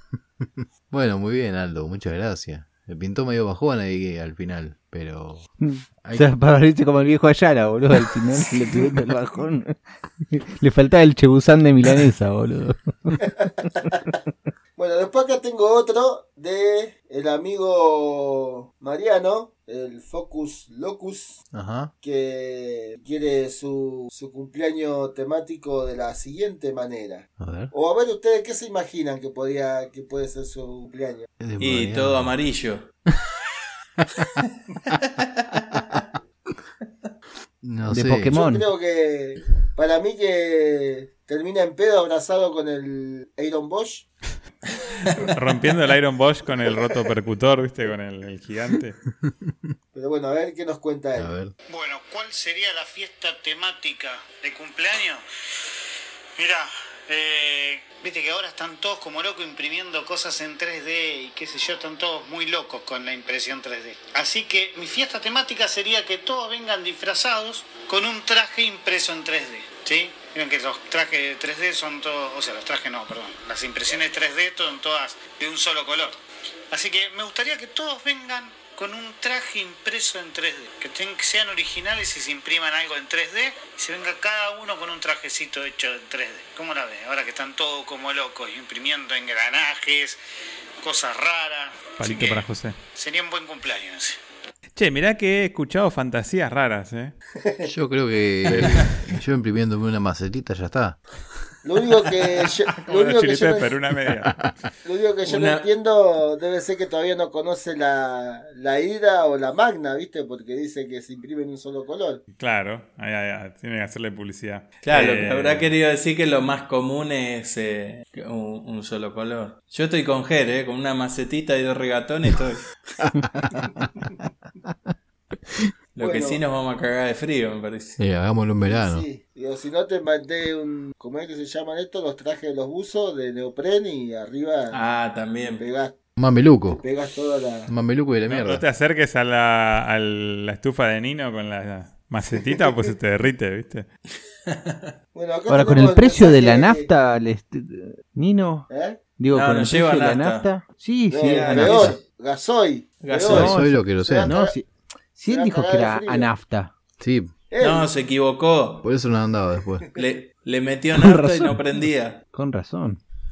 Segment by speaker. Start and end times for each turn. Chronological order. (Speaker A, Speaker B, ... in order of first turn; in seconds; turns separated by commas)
Speaker A: 0.4-5.5, Speaker B: 5.6-9.7, Speaker A: 6.0-6.3, Speaker B: 10.3-13.2, Speaker C: 13.2-14.2, Speaker C: 14.8-21.4, Speaker A: 21.5-21.9, Speaker C: 22.0-31.3, Speaker A: 27.4-27.7, Speaker A: 31.4-32.3, Speaker D: 31.6-32.9, Speaker D: 35.5-36.0, Speaker A: 37.6-38.4, Speaker B: 37.9-38.7, Speaker C: 38.3-44.1, Speaker E: 45.1-49.0, Speaker A: 49.2-49.7, Speaker C: 49.9-51.3, Speaker A: 51.1-51.5, Speaker F: 51.7-55.2, Speaker F: 56.4-76.2, Speaker F: 76.7-90.2, Speaker F: 90.8-94.2, Speaker E: 92.0-92.8, Speaker E: 94.8-97.1, Speaker A: 97.6-101.0, Speaker E: 98.4-99.0, Speaker C: 101.6-103.7, Speaker E: 102.9-104.3, Speaker A: 104.2-104.5, Speaker C: 104.8-112.2, Speaker D: 105.2-105.6, Speaker E: 112.4-115.7, Speaker D: 114.8-122.7, Speaker D: 125.9-128.0, Speaker C: 126.0-126.4, Speaker A: 128.0-129.1, Speaker C: 128.7-134.8, Speaker D: 134.7-135.6, Speaker C: 135.5-136.0, Speaker A: 136.2-136.8, Speaker C: 136.7-137.7, Speaker A: 137.7-138.6, Speaker E: 138.3-143.9, Speaker D: 144.5-144.9, Speaker C: 145.1-146.9, Speaker B: 145.5-152.0, Speaker C: 148.7-149.0, Speaker D: 149.3-150.5, Speaker C: 151.1-154.5, Speaker D: 151.2-151.9, Speaker D: 153.0-153.6, Speaker B: 153.3-156.7, Speaker A: 153.3-154.3, Speaker C: 155.3-156.3, Speaker A: 157.0-157.3, Speaker C: 157.5-157.9, Speaker D: 157.6-158.9, Speaker A: 158.8-159.8, Speaker D: 159.9-162.2, Speaker B: 160.9-161.6, Speaker B: 162.3-163.0